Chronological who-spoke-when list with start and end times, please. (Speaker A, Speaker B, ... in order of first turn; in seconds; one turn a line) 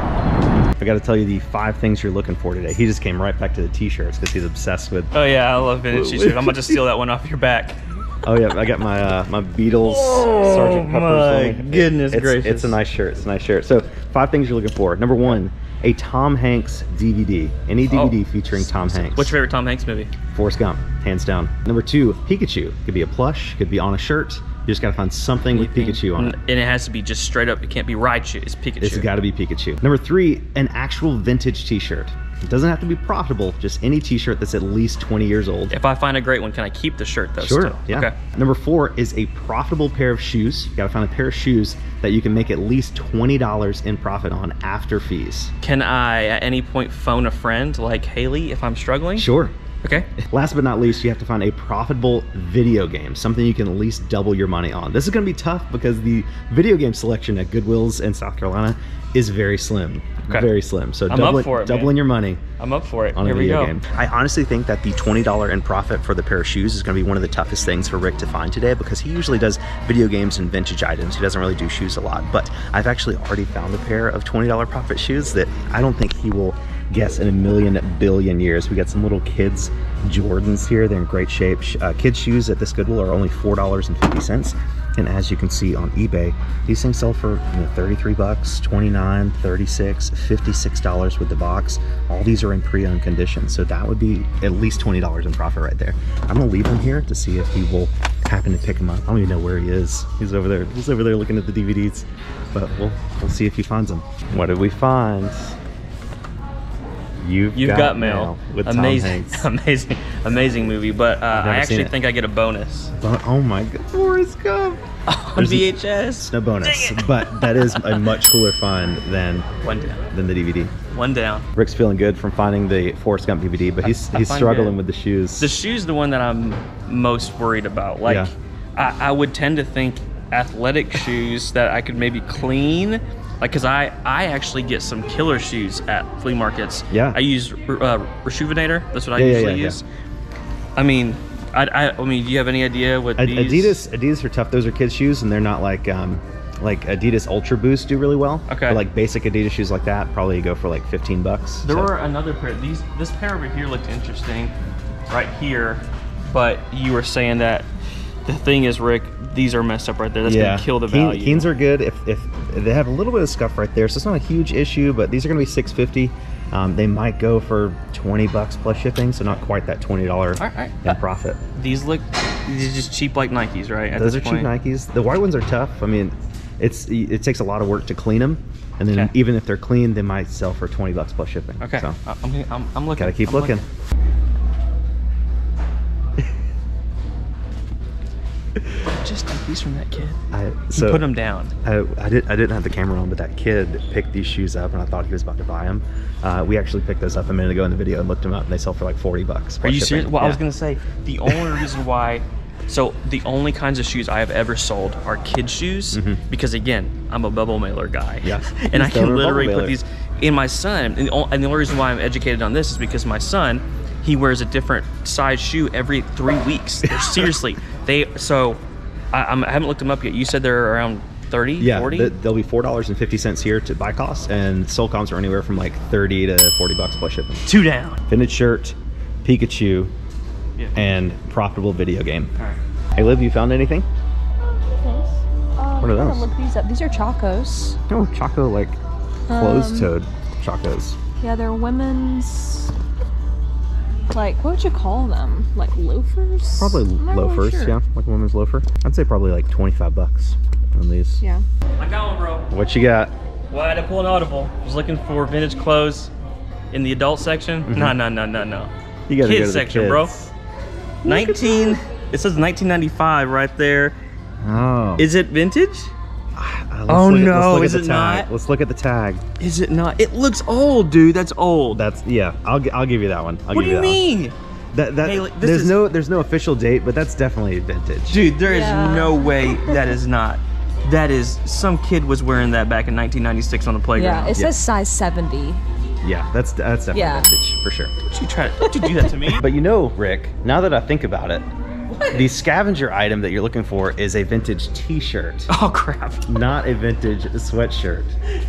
Speaker A: 0.8-5.1
Speaker B: 5.1-7.8
Speaker A: 5.9-6.8
Speaker A: 8.2-19.4
Speaker B: 9.8-12.8
Speaker B: 17.9-20.1
Speaker A: 20.3-26.4
Speaker B: 25.5-29.1
Speaker A: 28.8-35.7
Speaker B: 35.7-38.1
Speaker A: 37.4-45.5
Speaker B: 45.6-49.3
Speaker A: 49.1-49.5
Speaker B: 49.8-50.1
Speaker A: 50.2-62.4
Speaker B: 61.1-62.0
Speaker B: 62.6-63.8
Speaker A: 63.1-105.6
Speaker A: 107.2-109.5
Speaker B: 107.5-112.9
Speaker A: 111.3-111.9
Speaker A: 113.0-114.8
Speaker B: 115.1-118.1
Speaker A: 115.3-115.7
Speaker A: 116.2-119.5
Speaker B: 119.6-120.1
Speaker A: 120.1-120.7
Speaker B: 120.9-121.5
Speaker A: 121.5-125.5
Speaker B: 123.8-124.8
Speaker B: 125.4-139.8
Speaker A: 128.0-128.3
Speaker A: 136.9-137.2
Speaker A: 139.1-139.8
Speaker B: 140.8-143.8
Speaker A: 143.2-151.9
Speaker B: 148.5-148.8
Speaker B: 151.6-154.5
Speaker B: 155.1-157.7
Speaker B: 158.2-161.5
Speaker A: 160.2-171.4
Speaker B: 170.4-171.0
Speaker B: 171.5-174.5
Speaker A: 173.9-182.0
Speaker B: 181.6-183.6
Speaker A: 183.0-183.6
Speaker B: 188.7-190.2
Speaker A: 190.3-191.0
Speaker B: 190.7-191.5
Speaker A: 191.6-200.4
Speaker B: 199.6-218.6
Speaker A: 201.2-201.6
Speaker A: 205.9-206.2
Speaker A: 208.2-209.8
Speaker A: 216.8-217.3
Speaker B: 219.1-222.1
Speaker A: 221.6-227.4
Speaker B: 227.4-228.0
Speaker A: 228.1-229.9
Speaker B: 230.6-230.9
Speaker A: 230.7-232.3
Speaker A: 232.9-233.8
Speaker C: 234.5-237.8
Speaker A: 235.8-236.3
Speaker A: 237.9-238.8
Speaker C: 239.3-239.9
Speaker A: 239.3-241.0
Speaker C: 241.2-242.7
Speaker C: 244.1-247.8
Speaker A: 246.6-251.2
Speaker B: 251.8-252.4
Speaker A: 252.5-253.1
Speaker B: 253.5-256.1
Speaker B: 256.7-260.3
Speaker A: 257.6-257.9
Speaker A: 259.1-260.2
Speaker A: 261.0-261.8
Speaker B: 261.0-263.9
Speaker A: 264.4-265.1
Speaker B: 265.0-265.9
Speaker A: 266.4-269.2
Speaker B: 266.9-268.3
Speaker B: 269.4-271.8
Speaker A: 271.7-274.0
Speaker B: 273.5-274.3
Speaker A: 274.7-278.2
Speaker B: 275.0-275.9
Speaker B: 278.1-284.4
Speaker C: 278.4-279.8
Speaker C: 283.9-285.6
Speaker A: 284.3-284.6
Speaker A: 286.0-287.9
Speaker C: 286.9-287.3
Speaker B: 288.1-289.4
Speaker C: 288.6-289.1
Speaker A: 289.3-291.4
Speaker B: 291.9-292.4
Speaker A: 292.1-295.5
Speaker B: 295.5-296.3
Speaker A: 296.3-298.1